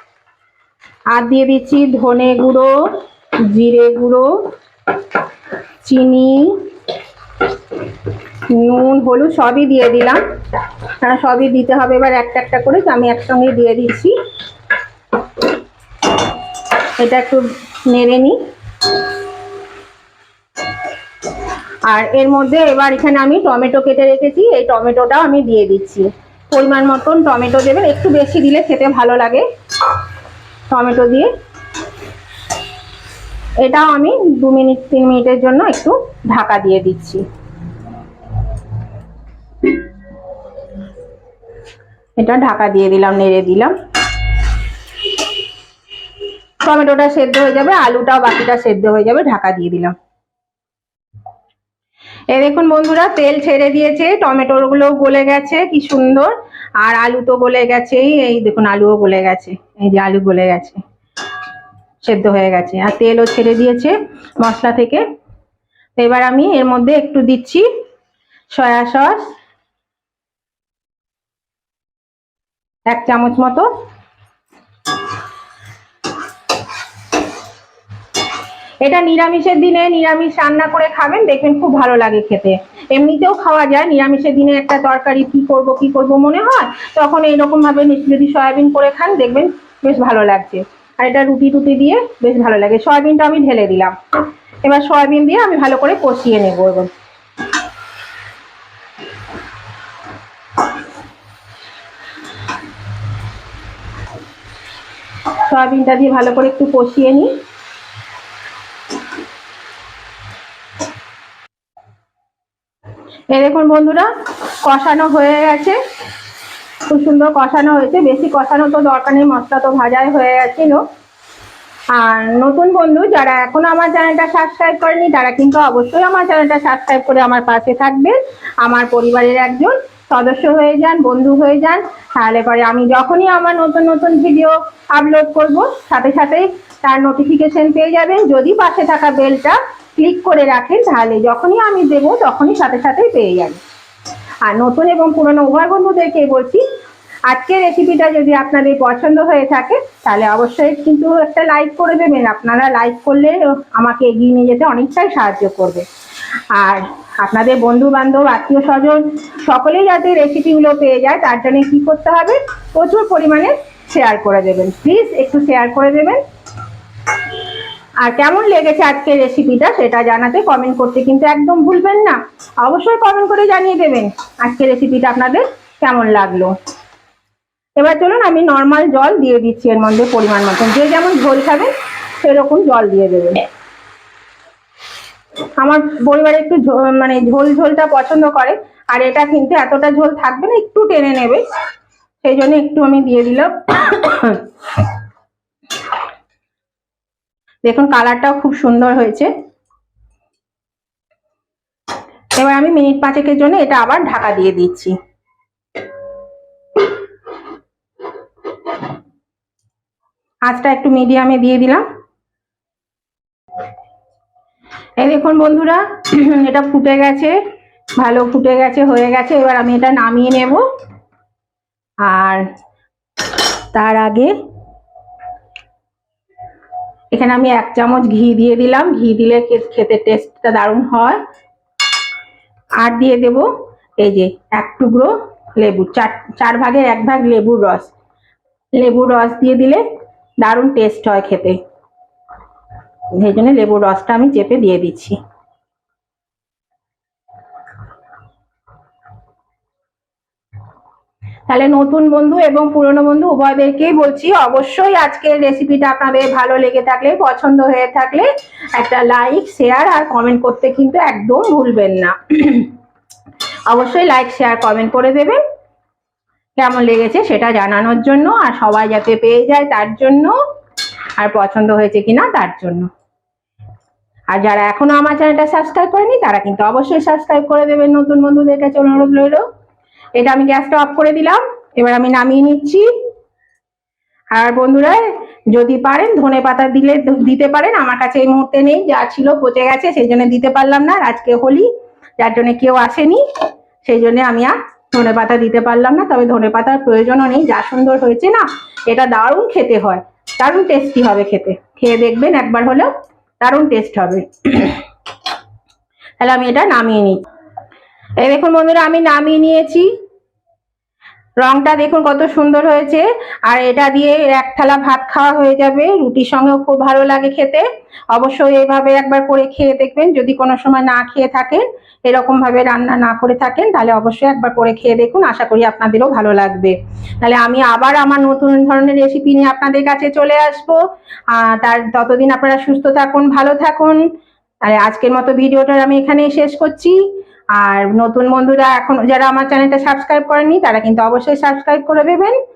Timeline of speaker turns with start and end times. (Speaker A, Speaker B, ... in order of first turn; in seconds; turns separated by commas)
Speaker A: 1.1-2.9, Speaker A: 3.5-4.5, Speaker A: 5.8-6.6, Speaker A: 8.5-10.2, Speaker A: 11.0-14.1, Speaker A: 17.0-18.4, Speaker A: 21.9-29.4, Speaker A: 30.7-31.3, Speaker A: 33.6-37.2, Speaker A: 42.2-43.7, Speaker A: 46.6-49.9, Speaker A: 52.3-60.8, Speaker A: 62.0-65.0, Speaker A: 66.0-67.7, Speaker A: 68.5-69.3, Speaker A: 72.9-73.7, Speaker A: 78.8-93.9, Speaker A: 94.6-96.9, Speaker A: 105.5-107.3, Speaker A: 113.3-114.1, Speaker A: 114.6-115.8, Speaker A: 116.9-120.8, Speaker A: 121.9-143.6, Speaker A: 144.4-146.6, Speaker A: 147.3-155.8, Speaker A: 156.5-166.2, Speaker A: 168.0-176.5, Speaker A: 177.8-181.7, Speaker A: 182.2-183.4, Speaker A: 185.6-191.4, Speaker A: 192.2-194.4, Speaker A: 197.6-199.3, Speaker A: 202.3-204.9, Speaker A: 210.5-211.8, Speaker A: 215.0-217.3, Speaker A: 218.0-220.6, Speaker A: 222.0-222.4, Speaker A: 223.7-224.3, Speaker A: 227.1-231.2, Speaker A: 232.8-237.9, Speaker A: 238.8-239.8, Speaker A: 240.4-241.6, Speaker A: 243.1-245.2, Speaker A: 251.5-262.7, Speaker A: 263.7-265.4, Speaker A: 266.6-270.3, Speaker A: 271.2-272.9, Speaker A: 274.3-279.4, Speaker A: 280.2-282.9, Speaker A: 284.3-293.2, Speaker A: 293.8-302.9, Speaker A: 303.4-304.8, Speaker A: 306.2-307.2, Speaker A: 308.2-309.9, Speaker A: 311.4-334.0, Speaker A: 334.6-337.0, Speaker A: 337.5-342.4